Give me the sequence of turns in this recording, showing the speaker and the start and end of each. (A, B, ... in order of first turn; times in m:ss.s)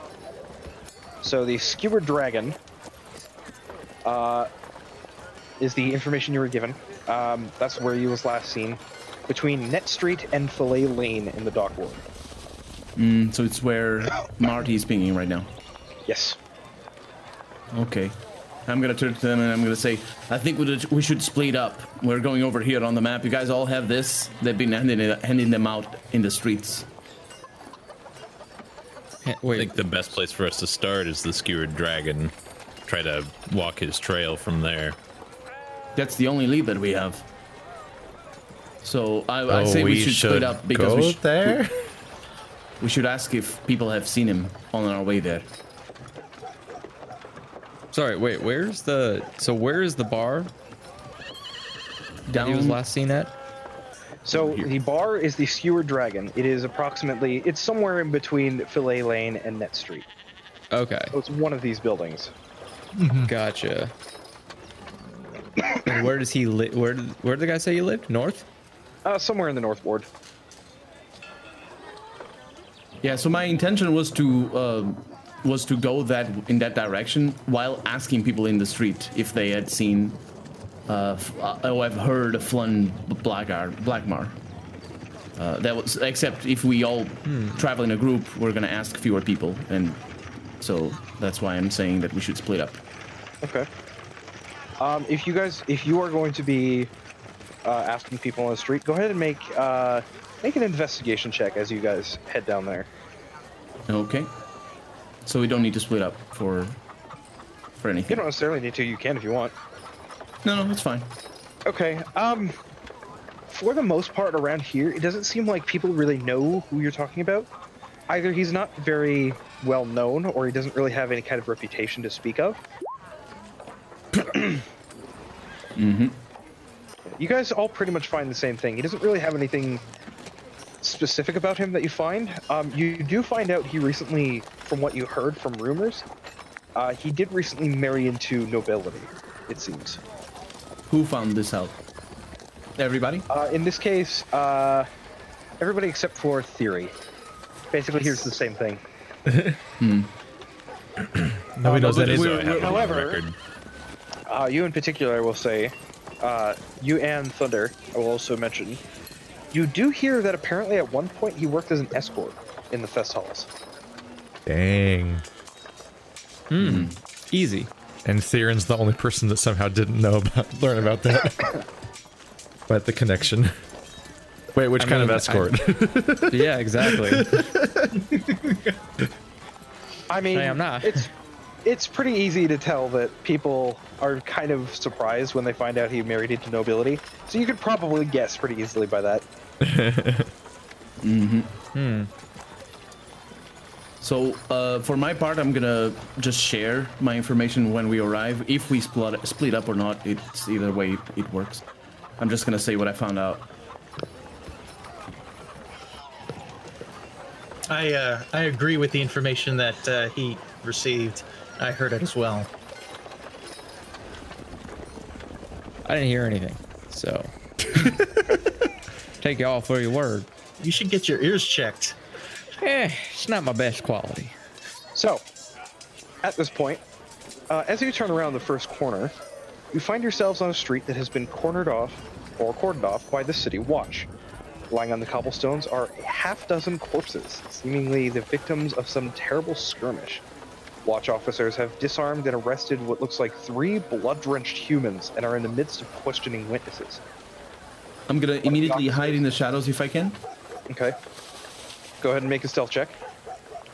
0:01.2-0:02.6 A
0:04.0-0:04.5 A
0:05.6-0:12.0 A
0:13.0-0:15.5 B
0:16.1-0:16.4 A
0:17.7-0:26.8 B
0:29.2-0:29.8 C
0:29.6-0:32.3 D
0:32.9-0:35.0 D
0:35.9-0:37.2 B
0:38.8-0:41.6 B
0:39.5-0:41.7 E
0:42.8-0:45.5 B
0:47.9-0:50.5 C
0:52.3-0:52.8 B
0:52.3-0:53.3 C
0:54.2-1:00.0 A
0:54.3-0:54.7 B
1:00.7-1:01.1 C
1:01.1-1:02.3 A
1:03.0-1:03.3 F
1:03.3-1:03.9 C
1:05.8-1:08.4 C
1:09.0-1:10.1 A
1:13.0-1:20.2 B
1:20.9-1:24.4 B
1:25.4-1:30.0 B
1:27.2-1:27.6 C
1:30.6-1:32.8 B
1:33.4-1:33.7 A
1:34.8-1:36.9 A
1:37.6-1:42.9 A
1:43.9-1:44.3 B
1:45.2-1:46.8 B
1:47.8-1:48.2 B
1:48.1-1:49.5 A
1:50.4-1:51.1 B
1:51.6-1:52.5 A
1:53.5-1:57.5 A
1:58.1-2:02.6 A
2:05.8-2:06.2 B
2:07.2-2:09.8 A
2:10.8-2:16.0 A
2:16.8-2:20.0 A
2:20.9-2:21.8 B
2:22.8-2:23.3 B
2:23.3-2:24.9 A
2:25.6-2:26.9 A
2:27.7-2:28.8 A
2:29.3-2:29.6 E
2:29.8-2:30.1 B
2:31.6-2:32.4 E
2:31.6-2:33.2 A
2:31.8-2:33.0 B
2:31.8-2:33.4 D
2:34.3-2:38.8 A
2:39.5-2:43.5 A
2:44.4-2:45.2 E
2:46.5-2:47.7 C
2:46.6-2:47.0 B
2:48.0-2:51.6 E
2:52.7-2:53.5 E
2:54.5-2:58.0 E
2:54.8-2:55.6 C
2:56.3-2:57.4 C
2:58.0-2:58.7 F
3:00.1-3:01.1 A
3:00.3-3:01.1 C
3:01.6-3:09.2 A
3:09.6-3:10.3 E
3:11.0-3:11.5 B
3:11.7-3:12.1 C
3:14.0-3:21.6 B
3:22.2-3:23.5 B
3:27.7-3:32.5 F
3:35.8-3:37.3 C
3:39.2-3:40.3 C
3:40.6-3:42.0 F
3:42.6-3:44.3 C
3:44.9-3:45.2 A
3:46.2-3:46.8 A
3:47.5-3:49.1 A
3:49.7-3:54.1 A
3:54.7-4:00.2 A
4:00.8-4:07.0 A
4:08.1-4:10.2 B
4:08.4-4:09.2 A
4:10.7-4:10.9 A
4:12.0-4:13.0 A